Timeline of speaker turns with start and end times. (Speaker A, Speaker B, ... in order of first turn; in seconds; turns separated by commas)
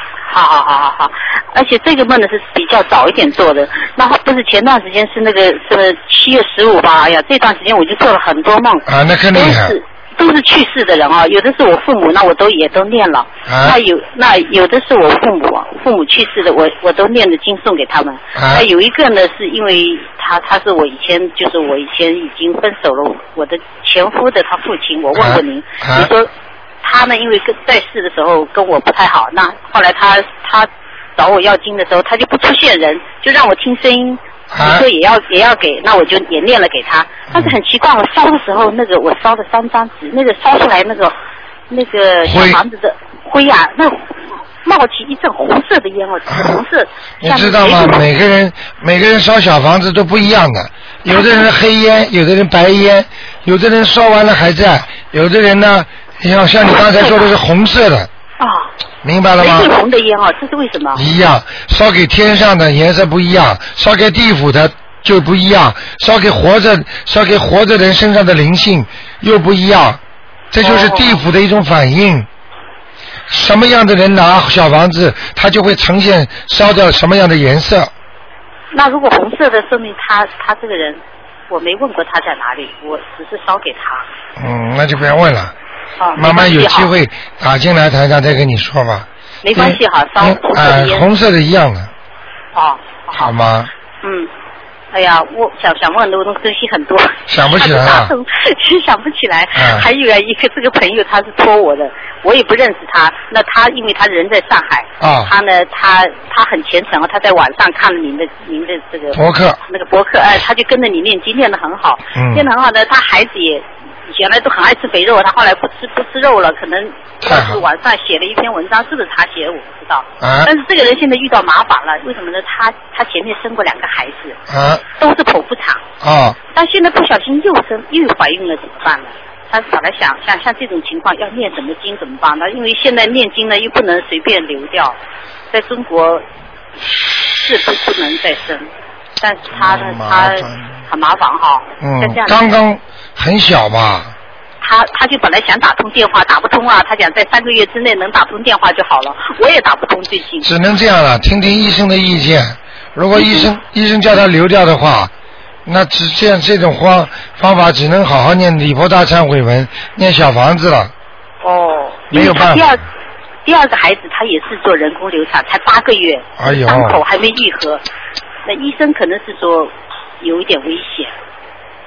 Speaker A: 0.2-26.3, Speaker B: 8.9-9.8, Speaker B: 13.4-13.8, Speaker B: 18.4-18.7, Speaker B: 25.1-26.1, Speaker A: 26.8-41.1, Speaker B: 34.5-34.9, Speaker B: 37.3-37.6, Speaker A: 41.7-48.0, Speaker B: 42.2-42.6, Speaker B: 46.3-46.6, Speaker B: 47.2-58.1, Speaker A: 51.1-51.4, Speaker A: 56.8-57.3, Speaker A: 58.4-58.7, Speaker B: 59.0-59.7, Speaker A: 59.4-61.0, Speaker B: 60.9-72.3, Speaker A: 70.6-71.2, Speaker B: 73.3-77.9, Speaker A: 78.7-84.1, Speaker B: 84.4-85.5, Speaker A: 86.0-86.9, Speaker B: 86.2-91.9, Speaker A: 89.4-91.1, Speaker A: 92.5-93.3, Speaker B: 93.1-93.7, Speaker A: 94.0-94.3, Speaker A: 94.9-124.4, Speaker B: 97.3-98.1, Speaker B: 99.5-99.9, Speaker B: 105.0-105.3, Speaker B: 109.1-109.6, Speaker B: 112.1-112.5, Speaker B: 117.2-117.6, Speaker B: 120.2-120.5, Speaker B: 124.5-124.8, Speaker A: 124.9-125.8, Speaker B: 126.0-126.4, Speaker A: 126.5-135.0, Speaker A: 135.5-136.2, Speaker A: 137.3-142.4, Speaker B: 139.5-140.8, Speaker B: 141.8-144.1, Speaker A: 144.6-150.5, Speaker B: 150.4-155.1, Speaker A: 153.1-153.5, Speaker B: 155.7-160.9, Speaker A: 161.4-162.8, Speaker B: 162.1-162.7, Speaker A: 163.4-167.8, Speaker B: 166.4-167.0, Speaker A: 168.4-171.1